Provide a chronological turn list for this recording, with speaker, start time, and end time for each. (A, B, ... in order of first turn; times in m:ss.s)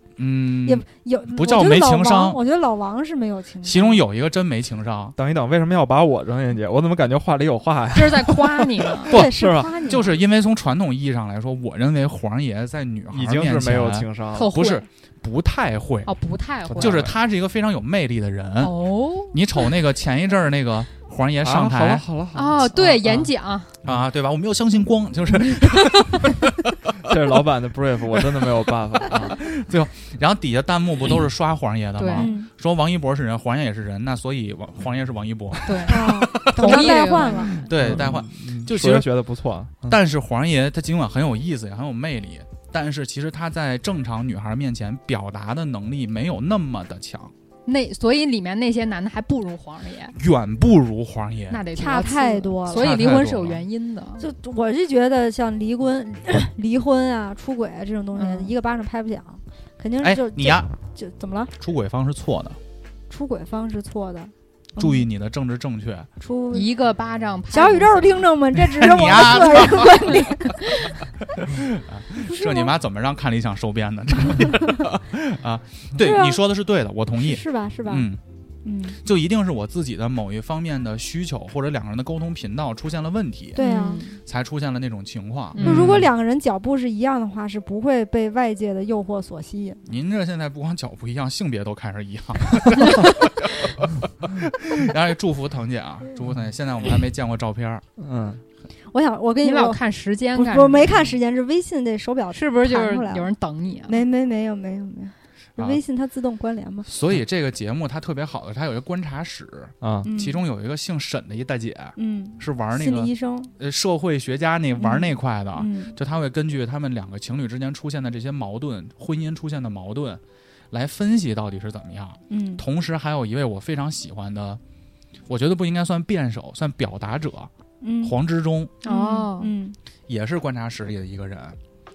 0:00.2-0:02.4 A
0:00.6-0:04.0 B
0:03.6-0:05.1 A
0:05.2-0:09.7 C
0:07.9-0:09.1 D
0:09.0-0:10.2 B
0:09.1-0:16.1 A
0:13.1-0:14.5 C
0:14.3-0:14.8 D
0:16.0-0:17.0 D
0:16.7-0:17.2 C
0:16.8-0:18.7 A
0:18.6-0:19.4 D
0:19.3-0:22.0 A
0:21.4-0:23.3 C
0:22.3-0:23.7 D
0:23.8-0:26.9 A
0:27.1-0:29.4 C
0:29.2-0:39.1 A
0:32.0-0:32.3 D
0:32.2-0:32.5 B
0:35.6-0:37.7 D
0:35.9-0:37.6 B
0:37.7-0:40.0 C
0:39.8-0:47.3 A
0:47.6-0:50.1 D
0:50.1-0:51.6 A
0:51.5-0:54.2 D
0:51.8-0:52.9 B
0:52.7-0:53.6 A
0:54.2-1:01.5 B
0:58.1-0:58.5 D
1:00.0-1:00.7 A
1:01.6-1:02.6 A
1:03.1-1:05.1 B
1:04.8-1:06.1 A
1:06.2-1:06.7 B
1:06.5-1:08.3 D
1:07.5-1:10.6 B
1:08.7-1:10.1 A
1:11.5-1:18.2 A
1:12.2-1:12.7 B
1:16.0-1:16.4 B
1:17.2-1:18.1 B
1:18.6-1:19.0 B
1:19.0-1:23.6 A
1:23.5-1:24.0 B
1:23.6-1:24.2 D
1:24.2-1:26.1 A
1:25.6-1:25.8 D
1:25.6-1:29.8 B
1:29.8-1:37.8 A
1:38.0-1:38.4 C
1:38.9-1:39.8 B
1:39.4-1:41.0 D
1:40.3-1:43.3 B
1:42.3-1:44.0 D
1:43.9-1:46.9 B
1:46.8-2:04.6 A
1:49.8-1:50.1 C
1:50.0-1:50.4 B
1:52.0-1:53.5 B
1:54.8-1:56.0 B
2:02.3-2:02.6 B
2:05.3-2:07.5 A
2:07.8-2:08.1 B
2:08.0-2:08.7 A
2:08.8-2:09.5 D
2:08.8-2:09.8 B
2:10.1-2:11.6 A